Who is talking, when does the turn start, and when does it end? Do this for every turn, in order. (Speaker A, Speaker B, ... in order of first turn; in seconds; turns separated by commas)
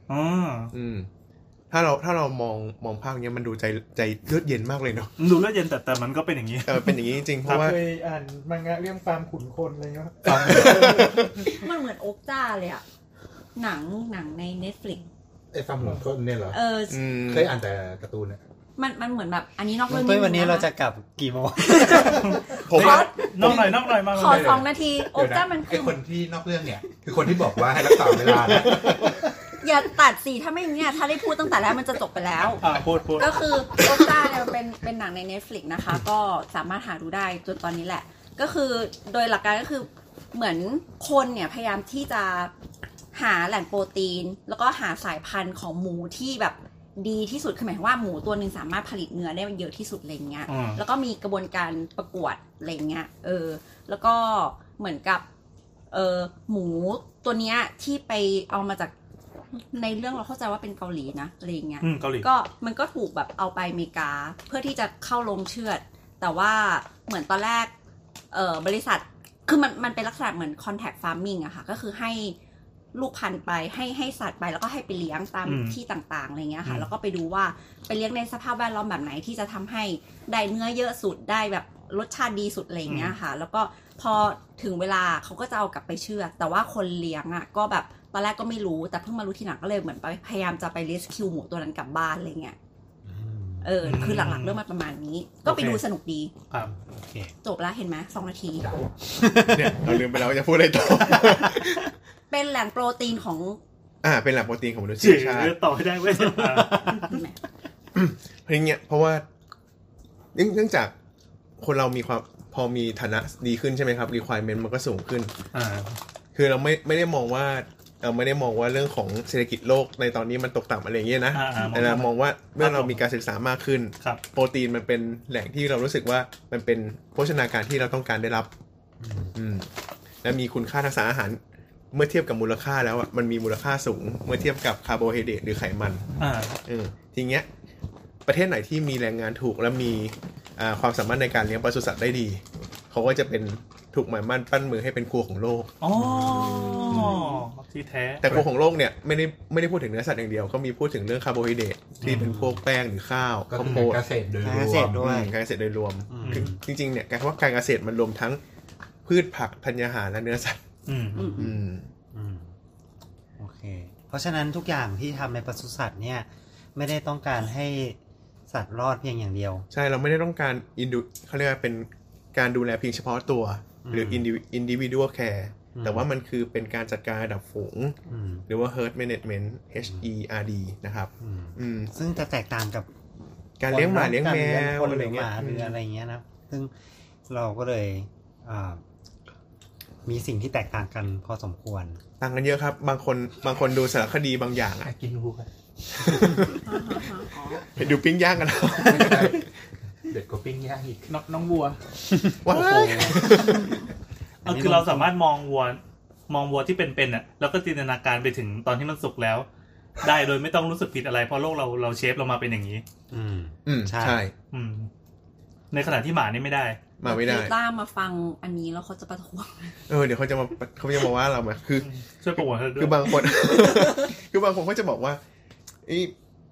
Speaker A: 0.1-0.7, Speaker B: 0.7-1.1, Speaker B: 1.7-5.1, Speaker A: 5.2-7.0, Speaker B: 6.7-7.8, Speaker C: 7.5-11.1, Speaker A: 10.2-11.0, Speaker B: 10.3-11.5, Speaker D: 11.5-12.8, Speaker D: 13.6-15.1, Speaker E: 15.5-16.6, Speaker D: 16.5-17.1, Speaker B: 16.9-17.5, Speaker E: 17.1-18.4, Speaker D: 18.8-20.7, Speaker F: 19.9-22.4, Speaker A: 21.7-24.5, Speaker D: 21.8-23.3, Speaker B: 22.7-23.1, Speaker E: 23.4-29.3, Speaker D: 24.1-26.0, Speaker B: 28.7-29.0, Speaker D: 29.6-32.6, Speaker A: 32.6-33.4, Speaker D: 33.2-42.5, Speaker D: 43.1-55.2, Speaker A: 50.5-50.8, Speaker D: 55.9-58.9, Speaker D: 59.6-67.7, Speaker A: 61.8-62.3, Speaker D: 68.3-72.4, Speaker D: 72.9-92.6, Speaker A: 75.5-75.8, Speaker A: 76.6-76.9, Speaker A: 82.9-83.2, Speaker F: 93.1-93.7, Speaker D: 93.6-96.3, Speaker A: 93.8-94.6, Speaker A: 95.5-95.8, Speaker F: 96.7-97.3, Speaker D: 97.4-98.7, Speaker F: 99.2-99.9, Speaker B: 99.4-101.9, Speaker D: 102.3-103.6, Speaker B: 104.0-105.6, Speaker A: 105.0-107.0, Speaker F: 106.4-107.0, Speaker D: 106.9-107.4, Speaker B: 108.5-109.3, Speaker B: 110.3-110.9, Speaker B: 111.6-115.3, Speaker A: 115.5-116.0, Speaker B: 116.3-128.5, Speaker A: 121.3-123.0, Speaker F: 129.0-129.3, Speaker B: 129.3-129.7, Speaker B: 130.2-131.4, Speaker B: 131.9-136.1, Speaker A: 136.2-136.6, Speaker B: 136.7-137.5, Speaker B: 138.2-145.7, Speaker A: 145.8-148.3, Speaker F: 146.0-146.7, Speaker D: 146.3-147.4, Speaker B: 146.9-147.2, Speaker B: 148.2-154.0, Speaker F: 152.0-152.6, Speaker E: 153.5-155.1, Speaker F: 154.4-155.3, Speaker B: 155.0-158.4, Speaker F: 156.1-156.6, Speaker A: 156.2-156.5, Speaker B: 159.1-160.6, Speaker A: 160.9-161.3, Speaker D: 161.2-161.5, Speaker F: 161.2-161.5, Speaker B: 161.4-161.9, Speaker F: 162.1-162.5, Speaker F: 163.4-168.0, Speaker F: 168.5-169.7, Speaker B: 169.7-178.0, Speaker F: 173.8-174.3, Speaker F: 175.8-176.1, Speaker F: 178.1-178.4, Speaker B: 178.5-181.9, Speaker F: 181.2-182.9, Speaker B: 183.6-185.8, Speaker F: 183.7-186.7, Speaker F: 187.3-188.8, Speaker F: 190.1-192.0, Speaker B: 192.2-194.9, Speaker E: 194.8-196.5, Speaker B: 196.0-196.5, Speaker D: 196.6-197.7, Speaker B: 197.7-199.4, Speaker E: 198.8-199.5, Speaker E: 200.1-201.2, Speaker C: 201.1-201.8, Speaker F: 202.1-203.3, Speaker B: 202.4-203.8, Speaker A: 202.5-203.3, Speaker D: 203.4-203.9, Speaker F: 204.4-205.1, Speaker A: 204.4-209.5, Speaker A: 210.0-212.8, Speaker F: 213.1-214.2, Speaker B: 213.7-214.3, Speaker A: 214.5-214.9, Speaker A: 215.7-216.8, Speaker B: 217.0-217.5, Speaker D: 217.0-219.8, Speaker B: 219.9-225.2, Speaker A: 221.8-223.3, Speaker D: 223.6-224.1, Speaker B: 225.9-226.1